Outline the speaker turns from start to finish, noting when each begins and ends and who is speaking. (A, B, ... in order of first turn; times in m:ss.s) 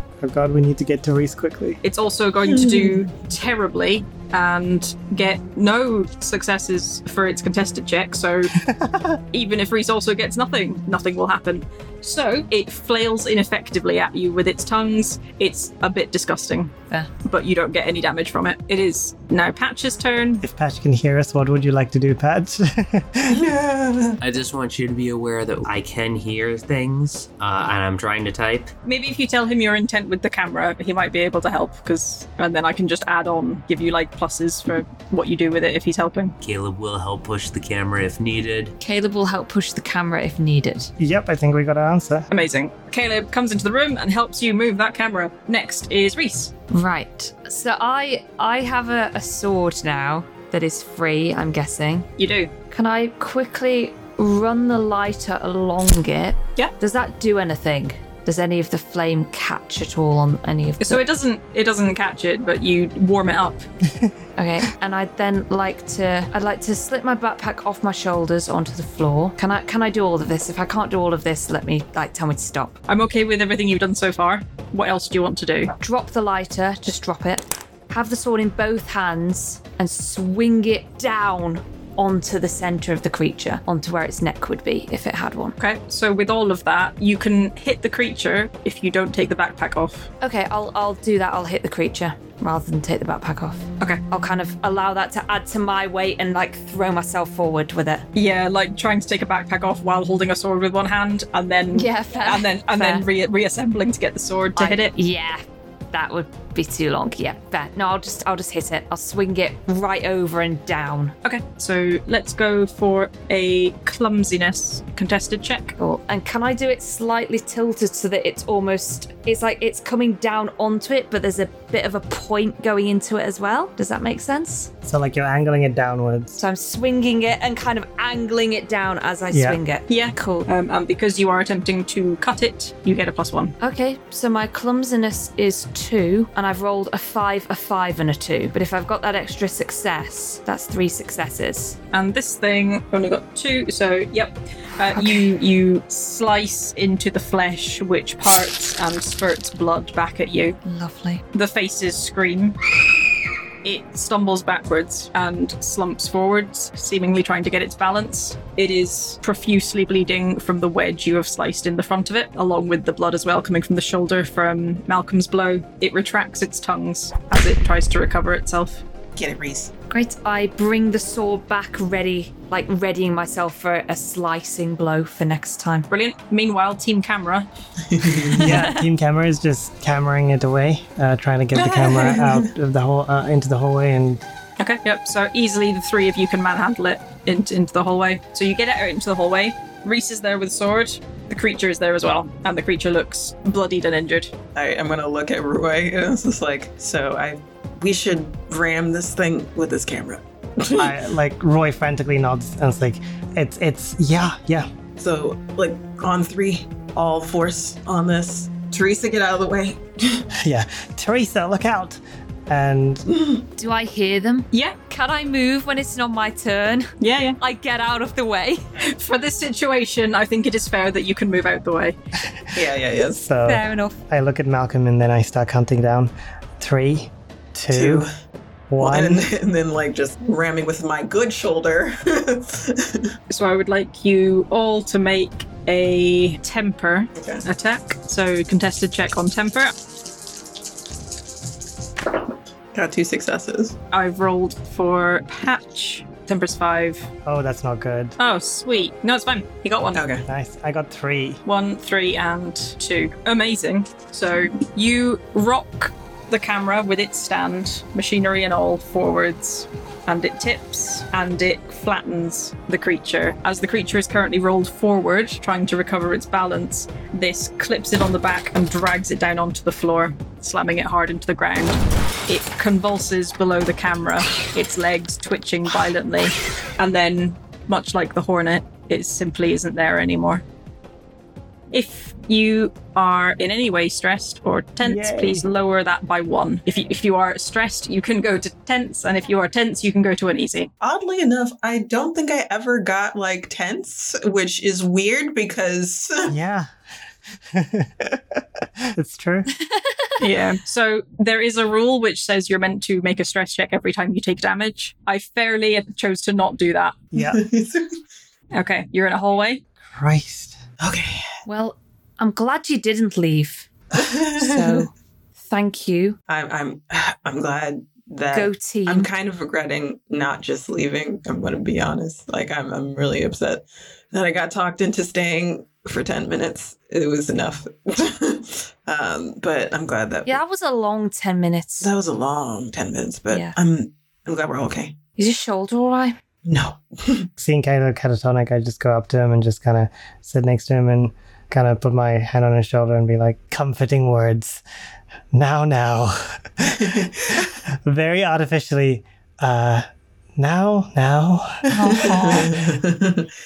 0:00.2-0:01.8 A
0:01.8-0:08.5 B
0:02.4-0:03.0 C
0:08.6-0:09.2 A
0:09.3-0:16.7 B
0:17.2-0:20.4 B
0:20.4-0:23.4 A
0:23.3-0:24.2 C
0:24.2-0:28.7 D
0:28.8-0:36.3 B
0:36.4-0:38.7 D
0:38.8-0:40.9 E
0:41.0-0:42.3 A
0:42.3-0:46.5 B
0:46.7-0:52.1 E
0:52.2-0:52.5 B
0:52.7-1:01.0 E
1:00.8-1:03.6 B
1:04.4-1:12.8 E
1:12.9-1:15.7 B
1:15.8-1:25.6 E
1:25.6-1:30.1 B
1:30.2-1:38.0 E
1:38.1-1:44.9 B
1:41.7-1:43.0 E
1:44.6-1:51.1 E
1:51.2-1:55.7 B
1:55.8-2:04.7 E
2:04.8-2:06.4 A
2:06.4-2:10.5 E
2:09.3-2:09.6 A
2:09.9-2:13.5 B
2:13.6-2:21.8 E
2:21.9-2:30.6 B
2:24.9-2:25.3 E
2:30.6-2:31.2 E
2:31.3-2:32.6 B
2:33.6-2:48.8 B
2:49.2-2:49.7 C
2:49.9-2:55.9 E
2:55.9-2:57.5 B
2:57.9-2:58.4 C
2:58.4-3:04.2 A
2:58.4-2:58.8 E
3:01.6-3:02.5 C
3:04.6-3:14.3 B
3:14.5-3:21.0 C
3:20.8-3:24.7 A
3:25.0-3:30.2 C
3:30.4-3:33.0 A
3:33.1-3:33.4 C
3:33.6-3:38.6 E
3:37.0-3:37.4 B
3:38.8-3:42.0 B
3:42.5-3:43.2 C
3:43.0-3:48.0 A
3:43.4-3:44.0 E
3:47.7-3:48.1 C
3:48.7-3:49.3 A
3:48.8-3:53.1 C
3:53.3-3:59.7 B
3:57.2-3:57.4 C
4:02.7-4:03.8 C
4:03.9-4:07.1 B
4:07.2-4:08.2 A
4:08.2-4:10.0 B
4:09.9-4:10.2 C
4:10.3-4:11.4 A
4:11.4-4:40.4 B
4:41.7-4:50.7 B
4:44.8-4:45.4 A
4:50.8-4:56.3 C
4:56.3-4:56.7 A
4:57.5-4:59.5 A
5:00.2-5:07.0 B
5:07.1-5:07.4 A
5:07.2-5:07.9 C
5:08.5-5:09.6 B
5:09.9-5:10.6 A
5:10.8-5:11.2 C
5:11.4-5:13.7 E
5:13.9-5:14.8 C
5:14.4-5:16.2 E
5:16.3-5:30.4 C
5:18.3-5:19.1 E
5:30.2-5:31.9 E
5:31.8-5:35.0 C
5:33.3-5:33.6 E
5:35.2-5:36.2 E
5:36.4-5:37.3 C
5:37.4-5:44.6 A
5:45.3-5:52.1 A
5:46.8-5:47.1 C
5:51.7-5:52.5 E
5:52.0-5:53.3 C